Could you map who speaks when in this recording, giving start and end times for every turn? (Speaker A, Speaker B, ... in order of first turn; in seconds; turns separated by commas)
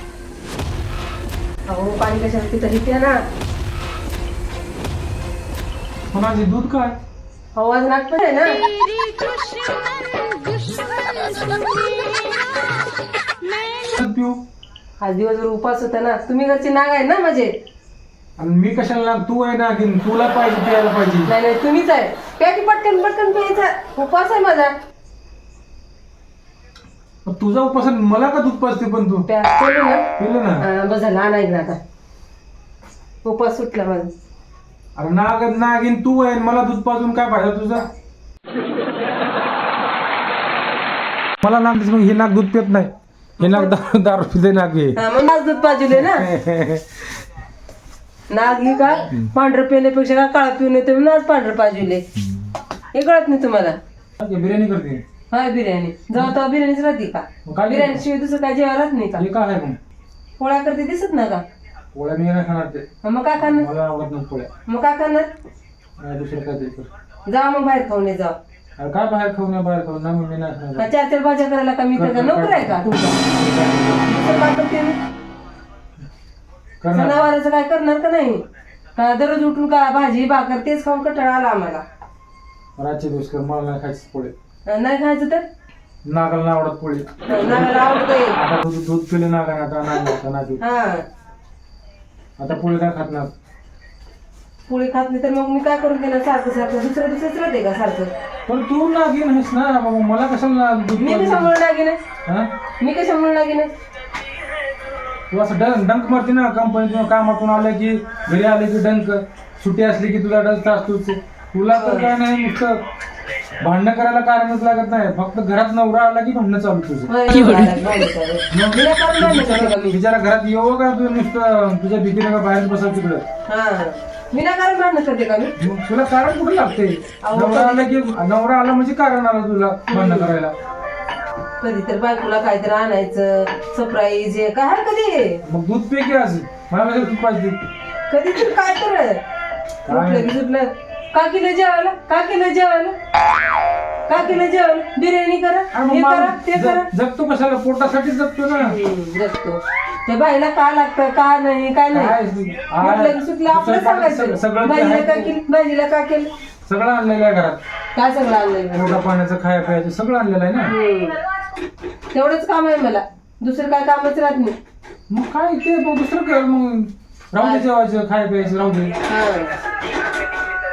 Speaker A: 1.7-3.2, Speaker B: 6.1-7.0, Speaker A: 7.5-8.6, Speaker B: 13.9-14.4, Speaker A: 15.0-17.6, Speaker B: 18.4-21.3, Speaker A: 21.2-24.7, Speaker B: 27.2-29.3, Speaker A: 29.3-30.1, Speaker B: 30.2-30.7, Speaker A: 30.6-31.8, Speaker A: 33.2-34.1, Speaker B: 35.0-37.9, Speaker B: 41.4-45.0, Speaker A: 43.4-43.7, Speaker A: 44.9-46.3, Speaker B: 45.9-47.0, Speaker A: 48.3-52.0, Speaker A: 52.9-53.8, Speaker B: 54.2-55.0, Speaker A: 55.3-59.2, Speaker B: 57.4-58.0, Speaker B: 59.1-59.8, Speaker A: 60.4-61.4, Speaker B: 61.9-62.9, Speaker A: 63.0-63.7, Speaker B: 63.4-64.5, Speaker A: 64.7-65.3, Speaker B: 66.0-66.9, Speaker A: 67.3-68.4, Speaker B: 68.8-70.9, Speaker A: 70.8-73.2, Speaker B: 71.9-74.5, Speaker A: 74.0-75.0, Speaker B: 76.8-77.3, Speaker A: 76.9-78.4, Speaker A: 79.0-81.8, Speaker B: 82.8-84.3, Speaker A: 84.7-85.4, Speaker B: 86.0-90.6, Speaker A: 87.3-88.4, Speaker A: 90.6-91.0, Speaker B: 92.4-93.3, Speaker A: 94.7-98.1, Speaker B: 98.5-101.5, Speaker A: 101.0-102.0, Speaker A: 102.8-103.7, Speaker B: 105.3-112.8, Speaker A: 111.7-112.1, Speaker B: 113.6-117.1, Speaker A: 117.1-120.0, Speaker B: 118.5-123.2, Speaker A: 123.5-125.5, Speaker B: 125.6-130.5, Speaker A: 127.2-127.9, Speaker A: 129.9-130.3, Speaker A: 131.6-135.4, Speaker B: 135.4-137.6, Speaker A: 138.1-139.2, Speaker B: 139.9-140.3, Speaker A: 139.9-142.9, Speaker A: 144.1-146.9, Speaker B: 145.7-148.8, Speaker A: 148.5-152.2, Speaker B: 151.9-155.3, Speaker A: 152.8-156.3, Speaker B: 156.7-157.6, Speaker A: 157.9-159.0, Speaker B: 158.7-160.7, Speaker A: 160.7-161.2, Speaker A: 162.1-164.5, Speaker B: 165.1-168.9, Speaker A: 169.0-169.6